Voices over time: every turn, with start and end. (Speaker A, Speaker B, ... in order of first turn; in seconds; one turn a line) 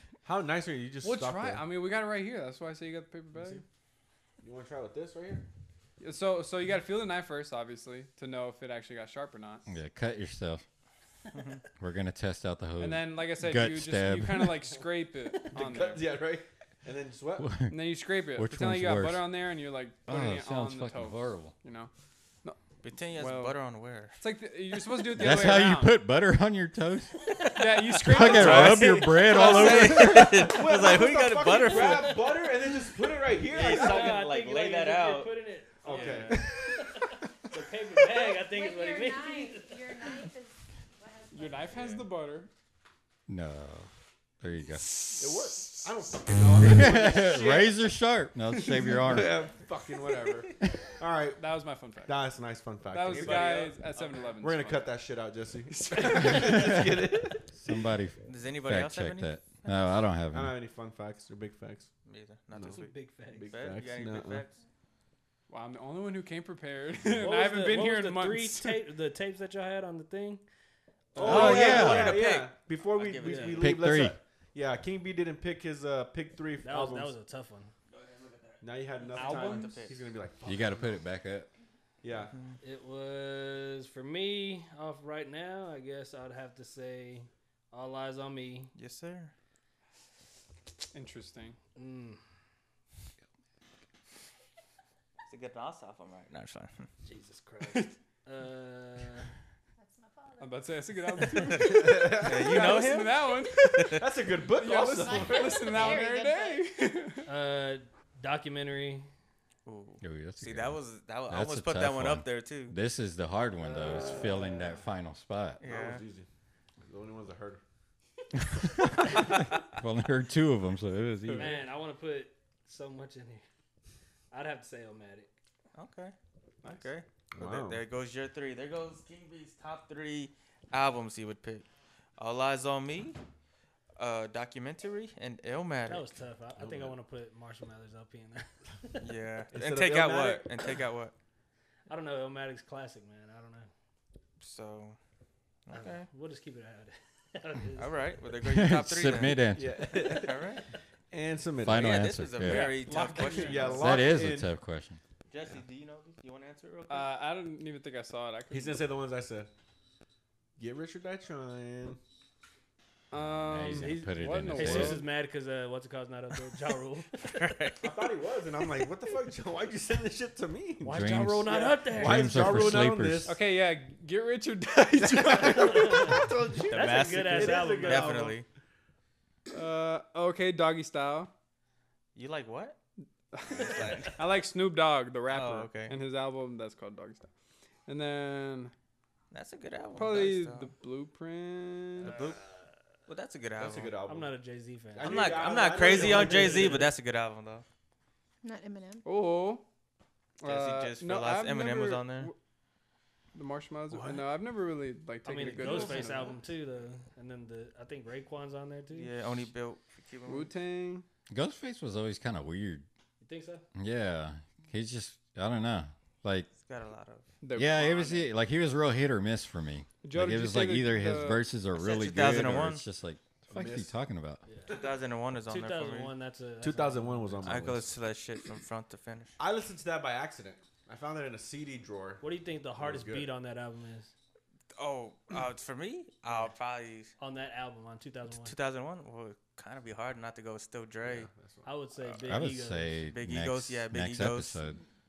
Speaker A: 0.2-1.6
Speaker B: 1.0-3.6
Speaker A: 3.4-3.6
Speaker A: 4.4-5.5
Speaker B: 6.0-9.7
Speaker C: 9.7-10.7
Speaker D: 11.3-11.6
Speaker C: 11.8-14.7
Speaker B: 12.8-16.1
Speaker A: 15.5-17.5
Speaker C: 17.4-19.3
Speaker B: 17.7-21.9
Speaker C: 20.1-21.6
Speaker D: 22.8-24.2
Speaker B: 23.1-23.6
Speaker B: 24.2-26.1
Speaker C: 25.1-27.5
Speaker B: 27.6-29.4
Speaker C: 28.0-30.5
Speaker D: 28.2-32.3
Speaker A: 28.3-34.2
Speaker E: 31.7-32.4
Speaker D: 33.5-35.3
Speaker E: 33.5-40.3
Speaker A: 35.8-36.8
Speaker D: 35.8-36.5
Speaker B: 35.9-36.5
Speaker F: 38.4-42.0
Speaker B: 41.3-42.5
Speaker C: 43.3-43.9
Speaker C: 44.4-45.1
Speaker A: 45.2-47.7
Speaker C: 46.6-49.5
Speaker B: 47.3-47.7
Speaker B: 48.5-49.1
Speaker A: 49.0-51.4
Speaker B: 51.4-52.2
Speaker A: 52.0-53.7
Speaker B: 52.9-55.0
Speaker D: 53.1-54.3
Speaker A: 54.3-57.5
Speaker B: 55.7-56.9
Speaker C: 56.4-57.0
Speaker C: 57.5-60.5
Speaker D: 58.3-59.8
Speaker A: 60.3-61.9
Speaker D: 62.0-64.6
Speaker A: 62.5-64.5
Speaker E: 62.6-63.6
Speaker B: 65.5-68.9
Speaker E: 67.2-70.4
Speaker A: 71.1-77.1
Speaker D: 71.2-73.8
Speaker C: 71.2-72.2
Speaker E: 73.2-73.6
Speaker C: 73.6-74.2
Speaker E: 76.6-77.7
Speaker D: 77.9-80.0
Speaker A: 78.6-80.9
Speaker B: 79.1-79.8
Speaker E: 79.2-79.7
Speaker C: 80.5-81.5
Speaker A: 82.0-82.3
Speaker D: 82.3-82.6
Speaker E: 82.6-88.7
Speaker D: 88.8-89.3
Speaker B: 90.9-91.6
Speaker E: 91.8-92.2
Speaker D: 95.3-96.9
Speaker E: 97.0-99.3
Speaker F: 99.8-100.6
Speaker B: 100.4-107.3
Speaker A: 101.5-102.8
Speaker D: 101.9-104.1
Speaker A: 104.0-105.8
Speaker F: 105.0-106.7
Speaker E: 107.3-109.1
Speaker D: 109.7-112.8
Speaker C: 110.0-110.8
Speaker C: 111.3-115.6
Speaker E: 113.6-114.7
Speaker D: 115.6-116.0
Speaker A: 115.6-116.3
Speaker A: 116.8-117.6
Speaker C: 118.5-121.6
Speaker E: 121.3-123.5
Speaker E: 124.3-125.3
Speaker D: 125.7-131.7
Speaker A: 127.3-127.8
Speaker D: 132.2-133.2
Speaker D: 134.0-136.1
Speaker E: 135.9-139.1
Speaker A: 136.6-137.0
Speaker D: 139.0-141.1
Speaker A: 139.5-140.5
Speaker E: 141.9-143.7
Speaker D: 144.4-145.0
Speaker D: 145.7-146.1
Speaker E: 145.7-147.9
Speaker D: 147.8-150.7
Speaker C: 148.4-150.0
Speaker A: 149.5-150.6
Speaker A: 151.1-152.0
Speaker C: 151.6-152.8
Speaker D: 151.7-153.9
Speaker E: 152.4-153.7
Speaker A: 152.6-154.5
Speaker C: 153.7-155.0
Speaker D: 155.3-157.1
Speaker B: 156.9-158.8
Speaker A: 158.5-159.5
Speaker A: 160.6-162.0
Speaker B: 163.1-165.1
Speaker C: 163.2-165.0
Speaker E: 163.7-167.2
Speaker D: 167.2-167.9
Speaker A: 167.8-171.1
Speaker E: 170.8-172.6
Speaker C: 170.9-173.4
Speaker B: 171.5-172.0
Speaker A: 172.0-173.4
Speaker B: 173.2-176.0
Speaker A: 175.0-178.4
Speaker E: 175.7-176.2
Speaker D: 176.7-178.5
Speaker E: 176.7-178.3
Speaker B: 179.5-181.3
Speaker D: 182.2-182.8
Speaker B: 183.3-187.3
Speaker D: 183.5-184.3
Speaker D: 185.3-185.9
Speaker B: 187.9-188.7
Speaker D: 189.3-190.7
Speaker B: 189.9-192.2
Speaker D: 192.0-192.4
Speaker D: 193.1-193.9
Speaker A: 193.6-194.4
Speaker E: 194.1-196.9
Speaker A: 194.9-196.9
Speaker D: 195.0-197.7
Speaker F: 198.4-199.1
Speaker B: 199.1-199.7
Speaker B: 200.4-202.4
Speaker D: 200.4-202.3
Speaker B: 203.3-206.4
Speaker D: 203.9-204.3
Speaker E: 205.2-209.1
Speaker D: 205.4-206.5
Speaker D: 208.9-210.5
Speaker B: 210.2-211.1
Speaker C: 211.3-212.9
Speaker E: 213.2-213.7
Speaker C: 213.8-216.5
Speaker D: 216.6-217.3
Speaker B: 217.4-218.3
Speaker C: 217.6-224.4
Speaker B: 220.0-221.5
Speaker D: 221.8-222.8
Speaker A: 223.5-223.9
Speaker D: 224.7-226.1
Speaker E: 225.5-227.6
Speaker A: 226.6-227.9
Speaker D: 227.4-229.4
Speaker A: 229.4-232.2
Speaker E: 232.2-234.1
Speaker A: 232.8-233.3
Speaker D: 234.8-237.1
Speaker E: 237.2-238.5
Speaker D: 238.3-241.3
Speaker A: 241.0-241.7
Speaker E: 241.7-243.0
Speaker C: 242.2-244.8
Speaker D: 243.1-244.6